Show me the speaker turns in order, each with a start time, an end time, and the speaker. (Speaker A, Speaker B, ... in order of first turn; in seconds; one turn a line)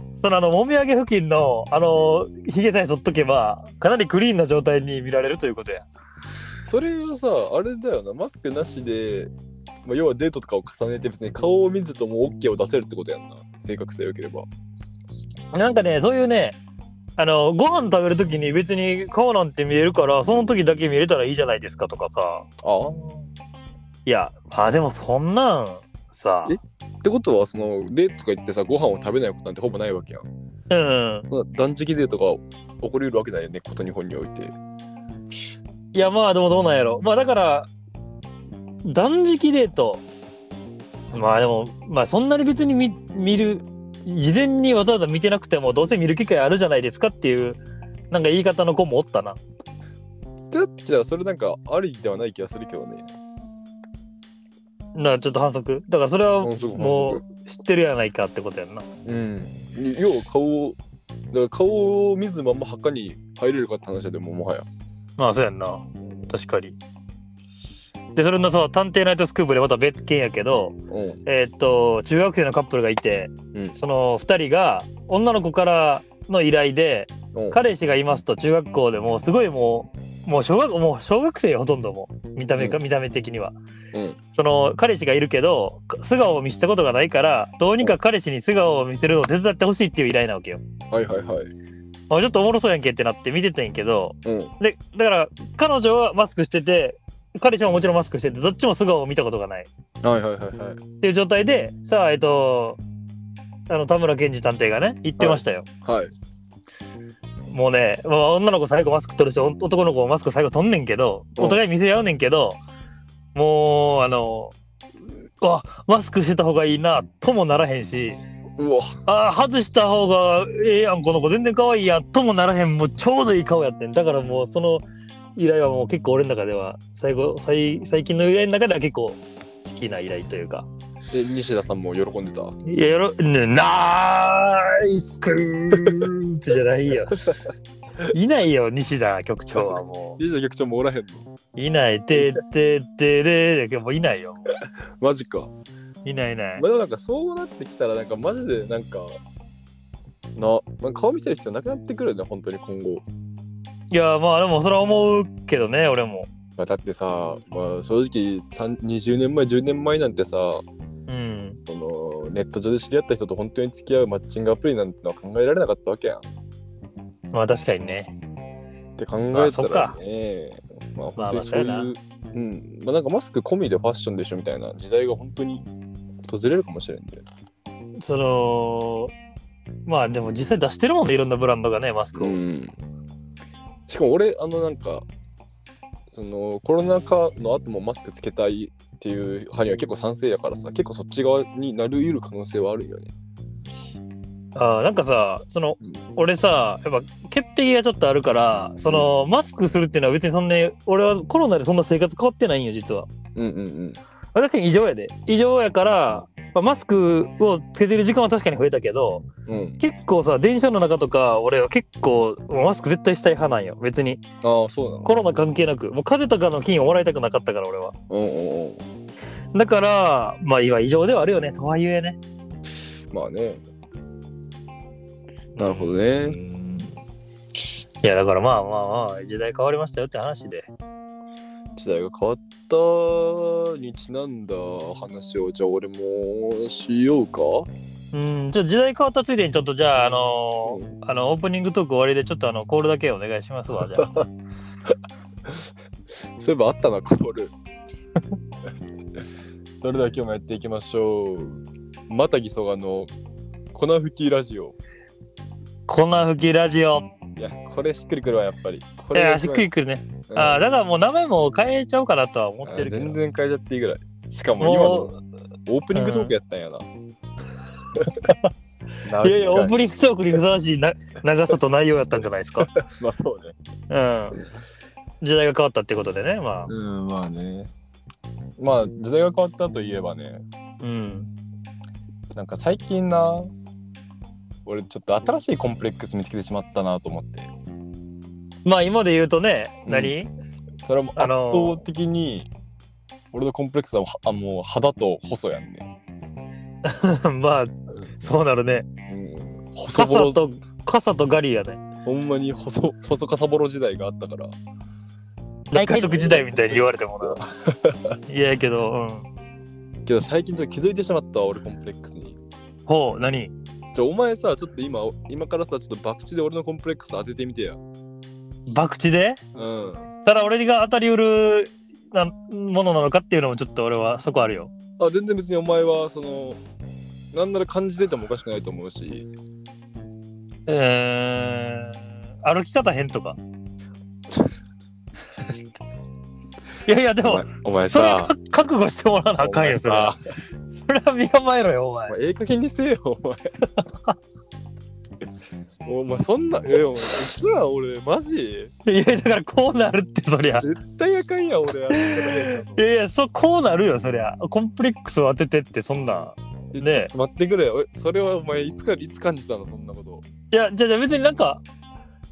Speaker A: 0.2-5.9
Speaker B: 6.6-9.3
Speaker B: 9.8-14.5
Speaker A: 15.5-16.6
Speaker A: 17.2-22.4
Speaker B: 22.6-23.3
Speaker A: 24.1-26.6
Speaker B: 26.4-30.3
Speaker A: 30.7-31.3
Speaker B: 31.3-34.5
Speaker A: 35.9-37.7
Speaker A: 38.8-40.0
Speaker A: 41.1-49.4
Speaker B: 50.5-53.1
Speaker A: 54.9-58.9
Speaker B: 56.4-57.2
Speaker B: 59.0-60.8
Speaker B: 61.3-64.7
Speaker A: 65.2-66.8
Speaker A: 68.1-83.5
Speaker B: 70.9-71.2
Speaker B: 77.3-77.6
Speaker B: 83.9-84.2
Speaker A: 84.3-90.6
Speaker B: 90.9-91.5
Speaker A: 92.1-99.7
Speaker B: 94.2-94.5
Speaker B: 100.0-100.8
Speaker A: 101.0-102.8
Speaker A: 103.7-105.7
Speaker B: 105.2-106.1
Speaker A: 107.5-112.6
Speaker A: 113.3-114.5
Speaker A: 115.4-118.2
Speaker B: 118.6-118.9
Speaker A: 119.0-124.8
Speaker A: 125.3-130.7
Speaker B: 131.1-132.5
Speaker A: 132.6-137.2
Speaker B: 135.7-136.1
Speaker A: 138.1-140.2
Speaker B: 139.6-141.3
Speaker A: 141.6-144.5
Speaker B: 145.0-145.5
Speaker A: 146.0-146.6
Speaker B: 146.6-149.2
Speaker B: 150.3-153.0
Speaker A: 153.9-156.3
Speaker B: 156.6-160.6
Speaker A: 161.1-161.6
Speaker B: 161.7-166.2
Speaker A: 167.3-168.1
Speaker B: 169.0-175.6
Speaker A: 169.3-169.9
Speaker A: 171.2-171.9
Speaker B: 176.2-177.2
Speaker A: 178.0-179.1
Speaker A: 179.8-182.4
Speaker B: 182.1-182.7
Speaker B: 183.9-185.0
Speaker B: 186.1-193.1
Speaker A: 194.5-203.1
Speaker B: 203.3-204.0
Speaker A: 204.3-209.2
Speaker B: 209.4-209.8
Speaker A: 209.8-214.2
Speaker B: 214.4-215.2
Speaker A: 215.0-217.9
Speaker B: 218.1-218.8
Speaker A: 219.5-222.2
Speaker B: 223.1-223.6
Speaker A: 225.6-226.9
Speaker B: 225.6-226.4
Speaker A: 228.0-230.7
Speaker B: 231.8-237.7
Speaker A: 238.1-244.1
Speaker B: 240.7-240.9
Speaker B: 243.7-244.3
Speaker B: 246.4-247.5
Speaker B: 249.8-253.1
Speaker B: 253.7-254.8
Speaker A: 255.9-257.1
Speaker B: 257.4-259.7
Speaker A: 259.1-263.2
Speaker B: 260.3-260.6
Speaker B: 262.6-265.1
Speaker A: 264.6-265.2
Speaker B: 265.7-266.9
Speaker A: 265.9-266.3
Speaker B: 267.9-268.3
Speaker B: 269.0-269.8
Speaker A: 269.2-272.7
Speaker B: 272.6-273.6
Speaker A: 273.9-274.4
Speaker A: 275.2-276.7
Speaker B: 276.7-277.7
Speaker B: 278.6-280.4
Speaker A: 280.8-281.3
Speaker B: 282.3-283.5
Speaker B: 284.6-287.5
Speaker A: 288.6-290.3
Speaker B: 289.9-290.1
Speaker B: 290.8-292.5
Speaker A: 291.2-291.8
Speaker B: 293.3-295.9
Speaker A: 296.8-298.9
Speaker B: 299.1-300.4
Speaker A: 299.9-301.8
Speaker B: 302.0-304.5
Speaker A: 305.7-307.4
Speaker B: 305.7-308.2
Speaker A: 308.3-309.3
Speaker B: 310.0-312.4
Speaker A: 312.9-313.5
Speaker B: 313.9-317.8
Speaker A: 318.7-319.4
Speaker B: 319.5-320.1
Speaker A: 320.2-324.7
Speaker B: 325.0-326.6
Speaker B: 327.3-329.3
Speaker A: 330.7-333.4
Speaker A: 336.9-340.1
Speaker B: 337.2-338.3
Speaker B: 339.4-340.2
Speaker A: 340.9-342.1
Speaker B: 342.1-343.5
Speaker A: 343.8-344.1
Speaker B: 345.8-348.7
Speaker A: 348.9-350.7
Speaker B: 350.6-352.8
Speaker A: 351.9-357.1
Speaker B: 356.7-360.2
Speaker A: 360.5-361.6